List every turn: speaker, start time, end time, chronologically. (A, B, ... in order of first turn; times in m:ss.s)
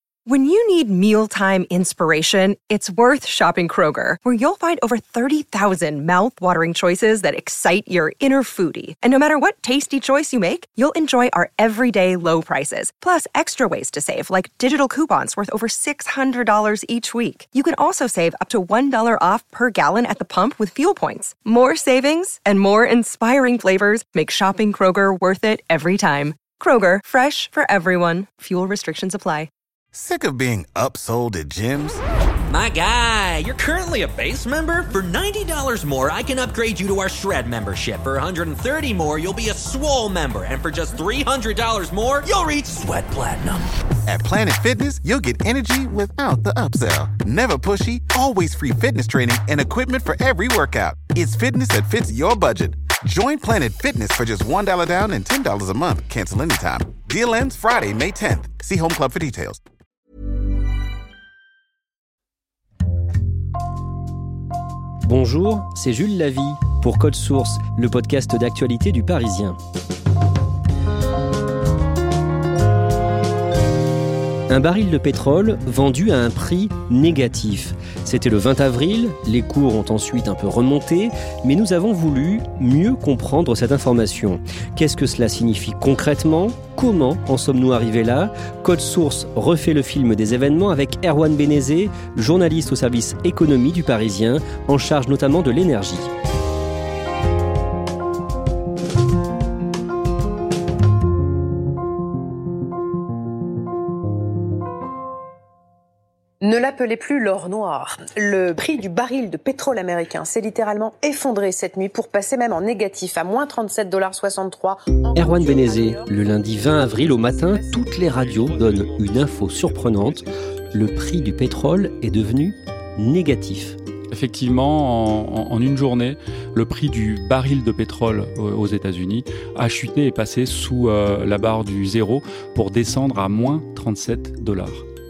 0:00.2-0:29.5 A
0:29.9-0:32.0 B
0:32.5-0:43.6 C
0:44.1-0:59.6 B
1:05.0-1:09.6 D
1:14.5-1:36.1 D
1:46.4-1:58.1 E
1:55.1-2:03.8 D
2:04.1-2:14.8 F